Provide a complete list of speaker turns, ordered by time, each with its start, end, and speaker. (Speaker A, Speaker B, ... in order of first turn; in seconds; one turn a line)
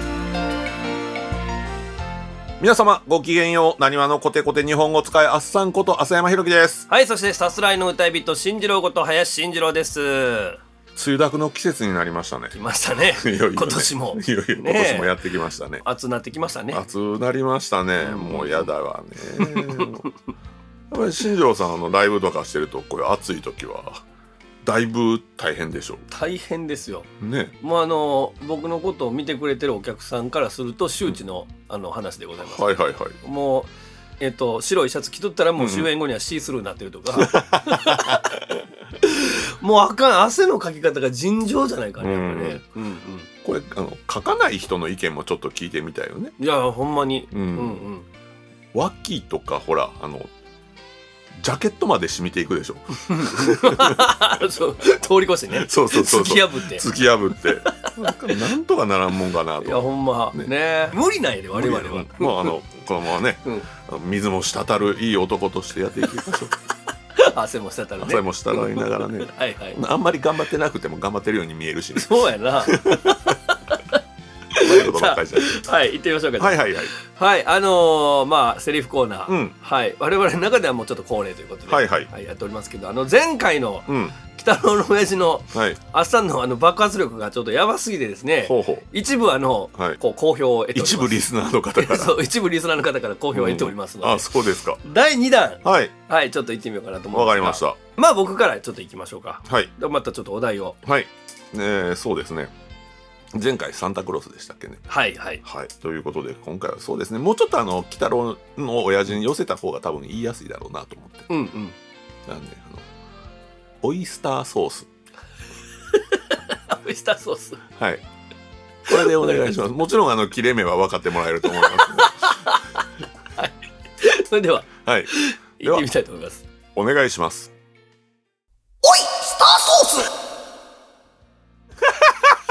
Speaker A: 2.6-6.9
Speaker B: 6.9-10.6
Speaker A: 11.0-12.5
Speaker B: 12.5-15.2
Speaker A: 13.1-15.8
Speaker B: 15.8-16.8
Speaker A: 16.7-20.1
Speaker B: 18.0-18.7
Speaker B: 19.4-20.1
Speaker A: 20.9-24.0
Speaker A: 24.6-26.1
Speaker B: 26.1-27.1
Speaker A: 27.2-27.6
Speaker B: 27.6-32.6
Speaker A: 32.4-33.2
Speaker B: 33.2-38.2
Speaker A: 35.6-35.9
Speaker A: 37.1-38.4
Speaker B: 39.0-43.3
Speaker A: 42.0-42.6
Speaker A: 43.4-46.3
Speaker B: 46.4-48.1
Speaker A: 47.3-47.8
Speaker A: 48.7-50.3
Speaker A: 51.4-54.1
Speaker B: 53.1-56.9
Speaker A: 55.5-60.5
Speaker B: 57.6-57.9
Speaker B: 59.6-62.5
Speaker A: 61.5-66.5
Speaker B: 67.1-69.8
Speaker A: 68.0-72.1
Speaker B: 72.0-74.0
Speaker A: 72.7-73.4
Speaker B: 74.5-91.2
Speaker A: 74.6-75.6
Speaker A: 76.4-76.9
Speaker A: 79.3-79.5
Speaker A: 81.7-82.1
Speaker A: 83.9-84.2
Speaker A: 85.5-85.8
Speaker A: 88.4-88.9
Speaker A: 89.8-90.0
Speaker A: 90.7-92.2
Speaker B: 91.8-94.3
Speaker A: 93.3-94.8
Speaker B: 94.8-100.8
Speaker A: 95.6-95.9
Speaker A: 97.1-97.8
Speaker A: 100.8-102.5
Speaker A: 103.3-104.9
Speaker B: 104.9-105.4
Speaker A: 105.4-111.3
Speaker B: 111.3-111.8
Speaker A: 112.3-112.8
Speaker A: 113.8-114.9
Speaker B: 115.9-117.6
Speaker A: 117.8-118.0
Speaker A: 118.9-122.4
Speaker B: 118.9-119.3
Speaker B: 121.5-122.6
Speaker B: 123.4-126.4
Speaker A: 124.8-125.9
Speaker A: 126.8-127.5
Speaker B: 128.8-130.1